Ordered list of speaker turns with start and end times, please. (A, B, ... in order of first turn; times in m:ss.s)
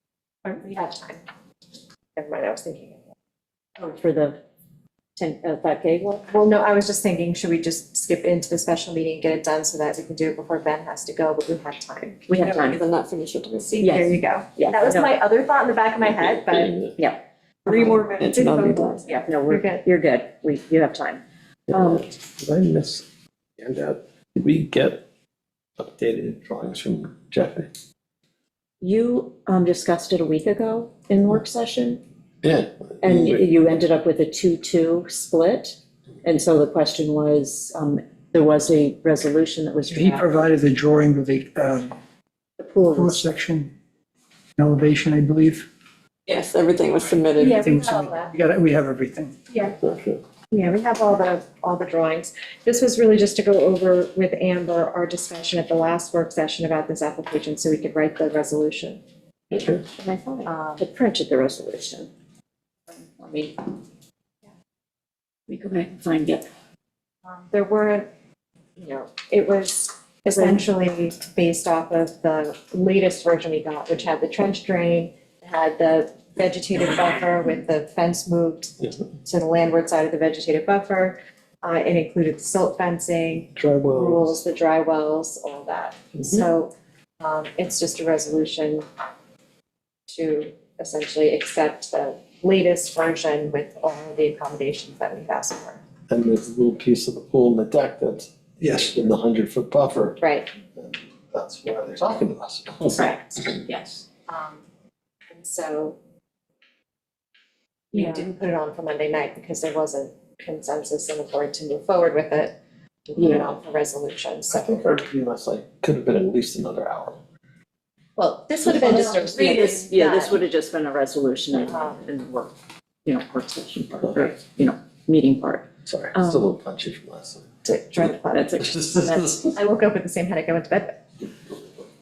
0:00.4-0:01.2 A
0:02.2-0:03.0 A
0:03.8-0:04.4 B
0:05.2-0:06.2 B
0:06.3-0:12.2 A
0:12.3-0:12.8 B
0:12.4-0:14.0 C
0:13.7-0:16.8 A
0:13.8-0:15.2 B
0:16.1-0:16.9 D
0:17.0-0:18.0 B
0:17.6-0:19.2 C
0:18.0-0:18.9 A
0:19.0-0:22.0 B
0:19.5-0:19.8 A
0:21.7-0:23.0 D
0:23.6-0:25.0 D
0:25.8-0:27.7 D
0:28.8-0:32.0 B
0:32.4-0:33.5 D
0:33.0-0:40.3 B
0:39.9-0:42.0 E
0:42.6-0:43.2 B
0:42.9-0:43.7 E
0:44.6-0:45.7 E
0:46.3-0:47.7 C
0:47.4-0:48.3 A
0:47.5-0:49.3 E
0:49.5-0:49.8 A
0:49.8-0:50.2 D
0:50.5-0:59.0 A
0:59.5-0:59.8 D
1:00.0-1:02.1 B
1:00.4-1:00.8 A
1:02.9-1:03.7 B
1:05.5-1:06.4 B
1:07.2-1:08.1 A
1:08.8-1:28.8 A
1:10.3-1:10.6 B
1:23.5-1:24.4 D
1:30.1-1:35.8 A
1:36.1-1:40.2 D
1:38.6-1:38.9 E
1:40.2-1:40.5 A
1:40.8-1:43.2 D
1:42.9-1:44.0 B
1:44.3-1:44.6 A
1:45.3-1:46.0 A
1:47.9-1:52.6 A
1:47.9-1:48.2 B
1:53.1-1:54.8 A
1:53.2-1:53.5 B
1:54.5-1:57.2 D
1:58.2-2:00.4 A
1:58.6-2:02.5 B
2:01.7-2:02.0 A
2:03.0-2:06.5 B
2:05.8-2:07.5 D
2:07.6-2:08.6 A
2:08.2-2:09.5 B
2:08.6-2:09.5 D
2:09.5-2:11.0 A